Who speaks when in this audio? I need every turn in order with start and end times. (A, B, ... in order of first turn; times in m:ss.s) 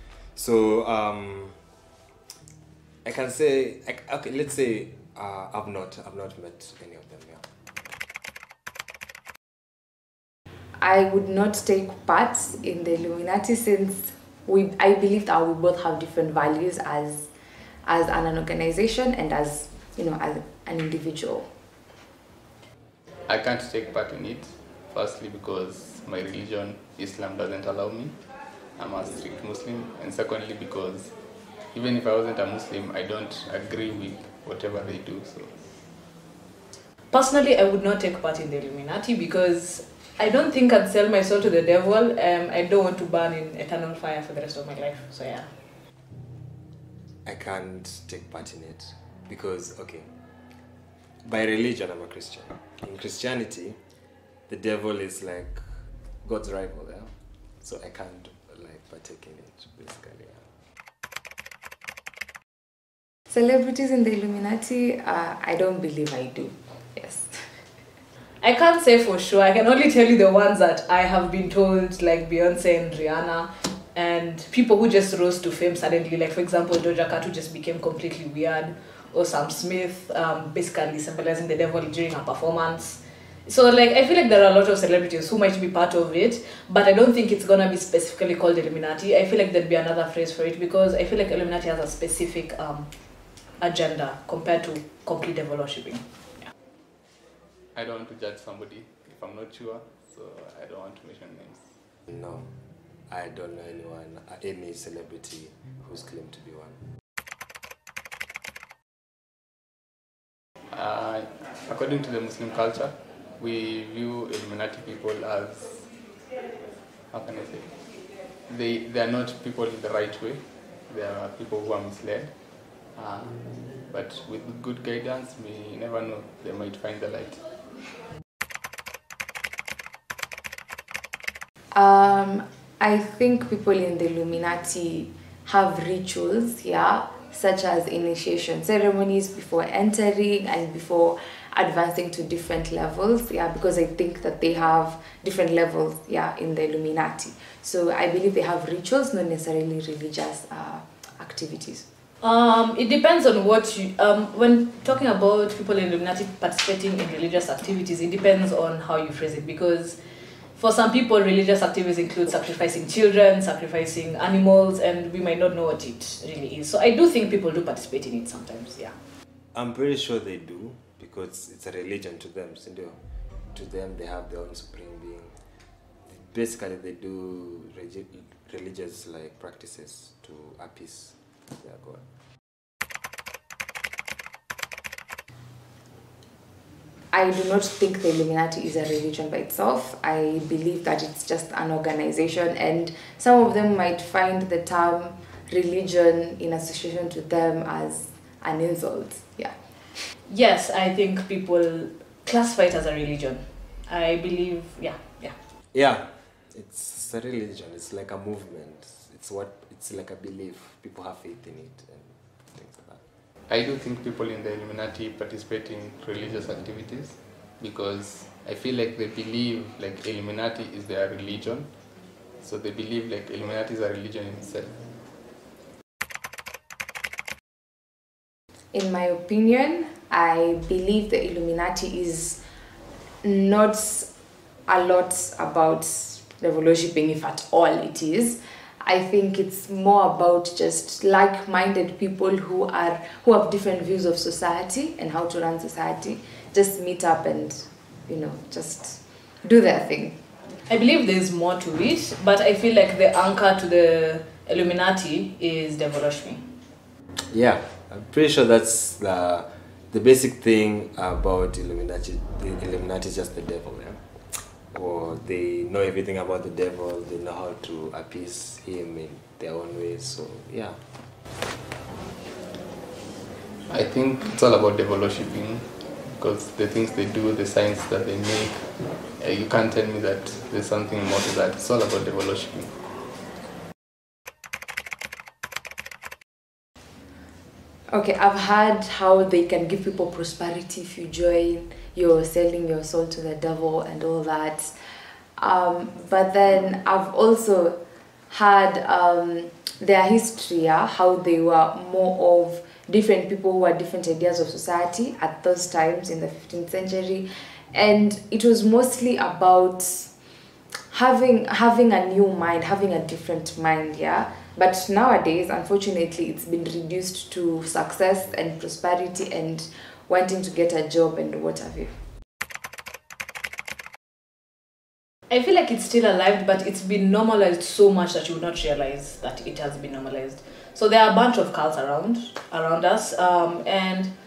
0:00.4-0:01.6 A
0:03.0-0:07.4 A
0:10.8-0:17.3 B
0:17.9-0:21.5 B
0:23.3-0:28.2 C
0:28.8-0:31.1 C
0:31.7-0:35.5 C
0:37.1-0:45.5 D
0:47.2-0:50.1 A
0:51.2-0:53.8 A
0:54.5-0:55.6 A
0:56.2-0:57.1 A
0:57.6-1:00.4 A
1:03.3-1:07.4 B
1:08.4-1:32.9 D
1:33.6-1:36.5 D
1:37.8-1:41.6 C
1:42.1-1:42.5 A
1:43.1-1:46.8 A
1:50.7-1:55.9 C
1:57.1-1:57.8 C
1:58.5-2:02.4 C
2:03.0-2:07.4 C
2:11.7-2:31.9 B
2:32.2-2:40.0 D
2:40.6-2:48.9 D
2:49.6-2:53.0 A
2:53.5-2:55.3 A
2:56.1-3:02.0 A
3:07.1-3:19.5 B
3:20.3-3:25.4 D
3:25.7-3:33.0 A
3:33.5-3:41.7 C
3:42.4-3:44.8 C
3:48.7-3:52.4 B
3:53.2-3:54.1 B
3:54.7-4:10.2 B
4:10.7-4:16.4 D
4:17.3-4:24.0 A
4:24.7-4:30.8 A
4:33.7-4:42.7 C
4:47.9-4:54.7 B
4:55.4-4:57.8 B
4:58.3-5:10.1 B
5:10.9-5:21.9 B
5:25.3-5:34.1 D